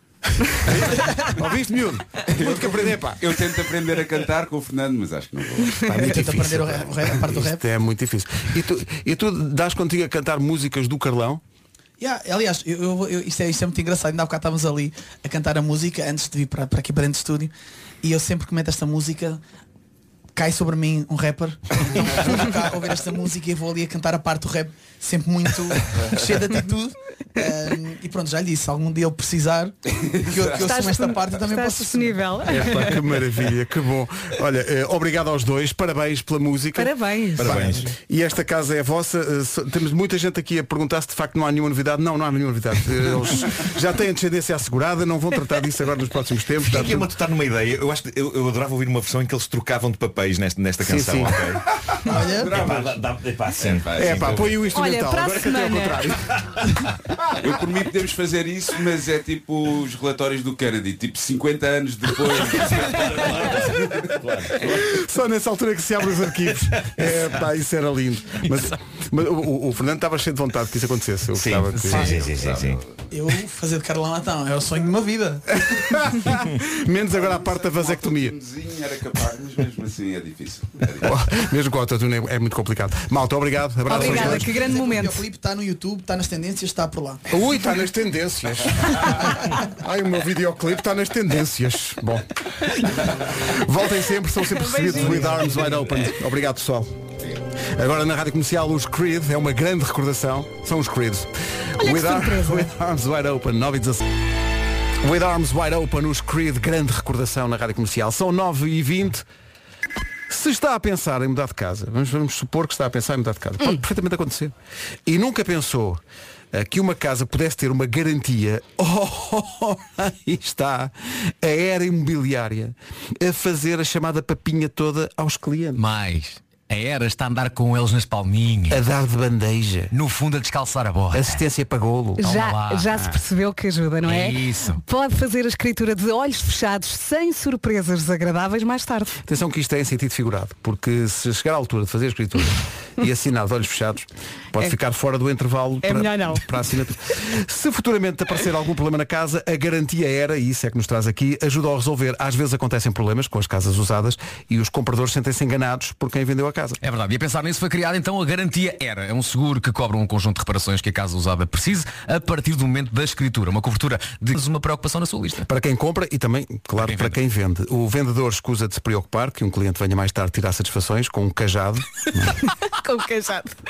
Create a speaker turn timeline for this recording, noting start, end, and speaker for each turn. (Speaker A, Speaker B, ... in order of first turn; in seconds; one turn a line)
Speaker A: 0.7-3.4
Speaker B: 2.3-5.9
Speaker A: 5.8-11.4
Speaker C: 5.9-7.6
Speaker C: 12.0-17.5
Speaker C: 18.0-19.4
Speaker C: 20.4-32.2
Speaker B: 30.1-30.6
Speaker D: 30.6-33.0
Speaker A: 32.5-47.1
Speaker D: 36.8-37.6
Speaker E: 37.4-37.9
Speaker E: 46.6-54.6
Speaker A: 50.8-51.5
Speaker B: 52.0-53.0
Speaker C: 52.1-52.6
Speaker B: 53.6-54.6
Speaker A: 53.9-56.5
Speaker D: 54.7-56.0
Speaker E: 56.3-56.7
Speaker B: 57.4-64.1
Speaker E: 62.7-64.8
Speaker A: 64.6-72.3
Speaker E: 71.3-72.8
Speaker B: 72.3-73.0
Speaker C: 73.1-75.6
Speaker A: 75.6-78.4
Speaker B: 77.1-81.2
Speaker A: 81.0-84.6
Speaker D: 83.9-85.2
Speaker C: 83.9-87.2
Speaker A: 87.3-97.0
Speaker D: 94.5-95.7
Speaker A: 97.7-104.1
Speaker D: 101.8-102.7
Speaker A: 105.0-109.3
Speaker A: 110.3-114.5
Speaker A: 115.1-125.8
Speaker F: 125.8-128.8
Speaker A: 128.7-129.9
Speaker F: 129.9-131.4
Speaker A: 131.1-132.3
Speaker D: 132.2-139.2
Speaker F: 132.2-133.1
Speaker F: 134.1-134.8
Speaker A: 139.3-156.8
Speaker D: 145.8-146.4
Speaker F: 156.8-165.5
Speaker A: 165.5-172.4
Speaker F: 166.8-167.2
Speaker D: 172.4-173.6